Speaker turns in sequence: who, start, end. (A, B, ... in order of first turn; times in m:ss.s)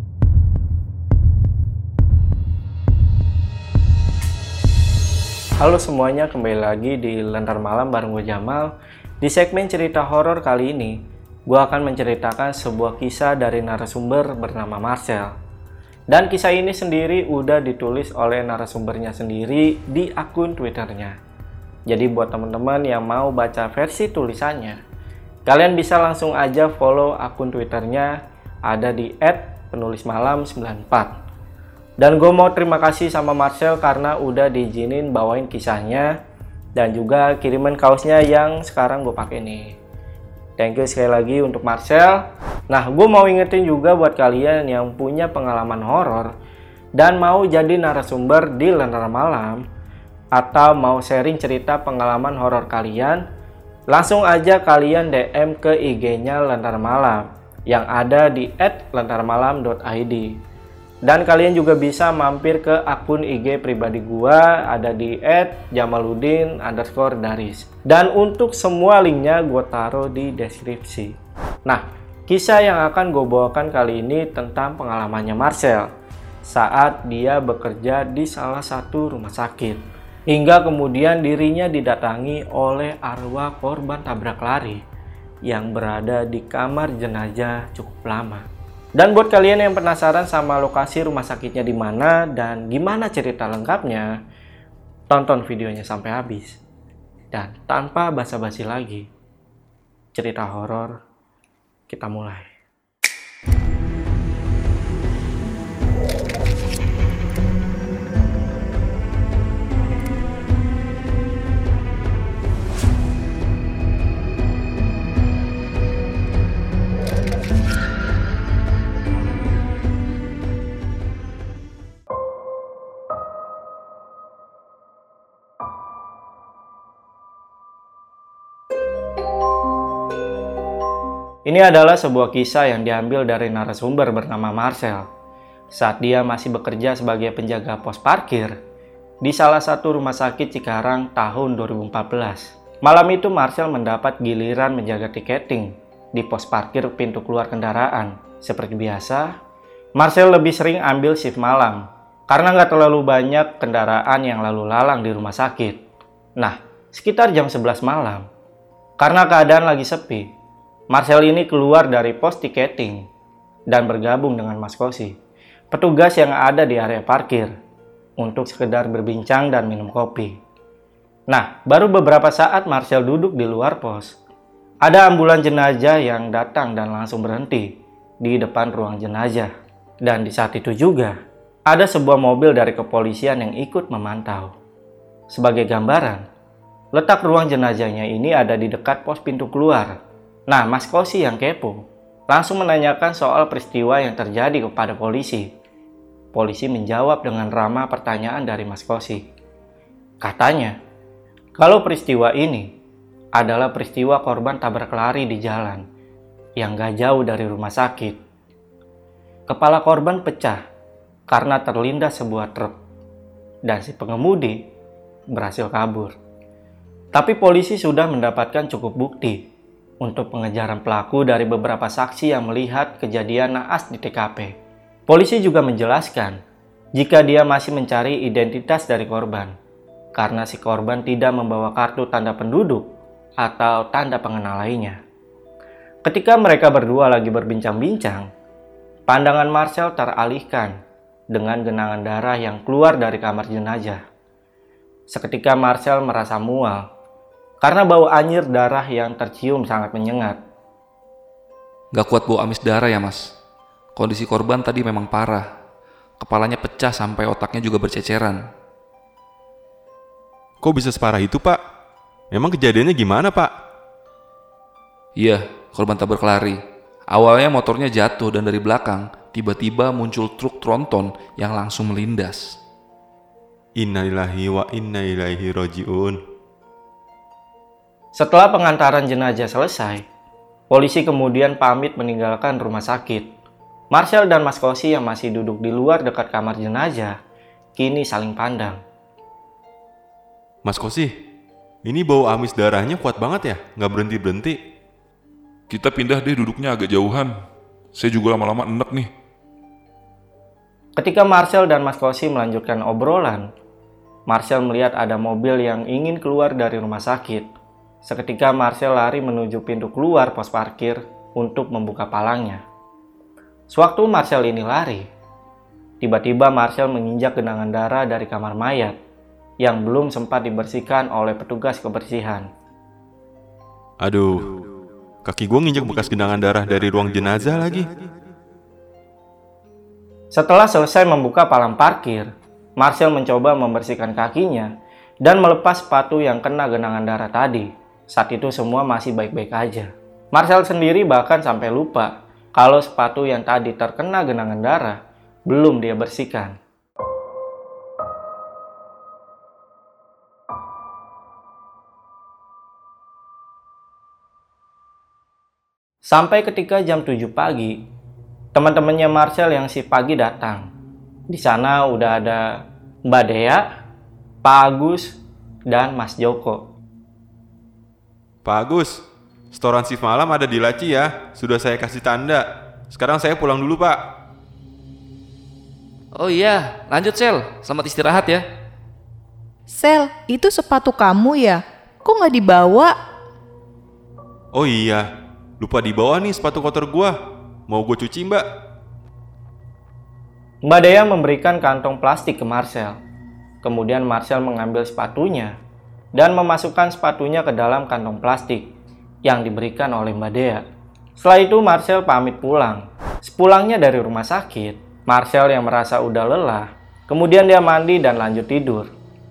0:05.6-0:15.4 A
0:16.1-0:21.2 A
0:21.9-0:24.8 A
0:25.5-0:31.1 A
0:32.0-0:36.1 A
0:36.8-0:39.8 A
0:40.6-0:46.3 A
0:47.0-0:49.6 A
0:50.3-0:53.2 A
0:53.9-1:00.4 A
1:01.0-1:11.1 A
1:11.7-1:15.9 A
1:16.5-1:24.8 A
1:25.4-1:34.1 A
1:35.1-1:36.6 A
1:37.3-1:39.1 A
1:40.1-1:41.0 A
1:41.9-1:42.5 A
2:11.4-2:15.1 A
2:15.7-2:18.5 A
2:19.2-2:29.3 A
2:30.0-2:35.8 A
2:36.4-2:38.3 A
2:39.0-2:40.3 A
2:40.9-2:43.1 A
2:43.7-2:45.2 A
2:45.7-2:47.5 A
2:48.2-2:50.4 A
2:51.3-2:54.2 A
2:54.8-2:57.7 A
2:58.2-2:59.5 A
3:00.0-3:01.2 A
3:01.7-3:04.5 A
3:05.3-3:06.2 A
3:06.9-3:10.0 A
3:10.5-3:15.5 A
3:16.3-3:19.2 A
3:20.2-3:20.8 A
3:21.6-3:22.7 A
3:23.3-3:25.8 A
3:26.6-3:28.2 A
3:29.5-3:30.6 A
3:31.3-3:32.8 A
3:33.6-3:34.6 A
3:35.3-3:36.2 A
3:37.1-3:39.4 A
3:40.0-3:44.5 A
3:45.1-3:46.4 A
3:47.0-3:49.5 A
3:50.2-3:52.9 A
3:53.4-3:55.0 A
3:56.0-3:58.3 A
3:59.1-4:00.7 A
4:01.3-4:04.0 A
4:05.1-4:06.9 A
4:07.6-4:10.4 A
4:11.9-4:13.3 B
4:14.0-4:15.5 B
4:16.2-4:18.4 B
4:20.6-4:21.6 C
4:22.3-4:23.5 C
4:25.2-4:32.6 B
4:33.8-4:36.2 C
4:38.2-4:40.0 A
4:40.7-4:43.3 A
4:43.9-4:47.2 A
4:47.8-4:48.8 A
4:50.6-4:51.1 C
4:51.8-4:54.6 C
4:55.7-4:57.3 D
4:58.0-4:59.1 D
5:01.0-5:03.5 A
5:04.3-5:07.5 A
5:08.0-5:12.6 A
5:13.7-5:15.1 A
5:16.0-5:19.0 A
5:19.6-5:22.5 A
5:24.0-5:24.5 C
5:25.2-5:27.9 C
5:30.3-5:46.6 A
5:56.1-5:57.8 A
5:58.5-6:00.7 A
6:01.3-6:03.7 A
6:04.4-6:05.2 A
6:05.7-6:06.6 A
6:08.4-6:14.2 C
6:16.2-6:18.4 B
6:19.7-6:23.0 E
6:24.5-6:25.1 C
6:25.6-6:27.2 C
6:27.7-6:28.4 C
6:30.6-6:33.0 A
6:33.6-6:35.5 A
6:36.2-6:38.7 A
6:39.2-6:40.6 A
6:41.2-6:48.9 A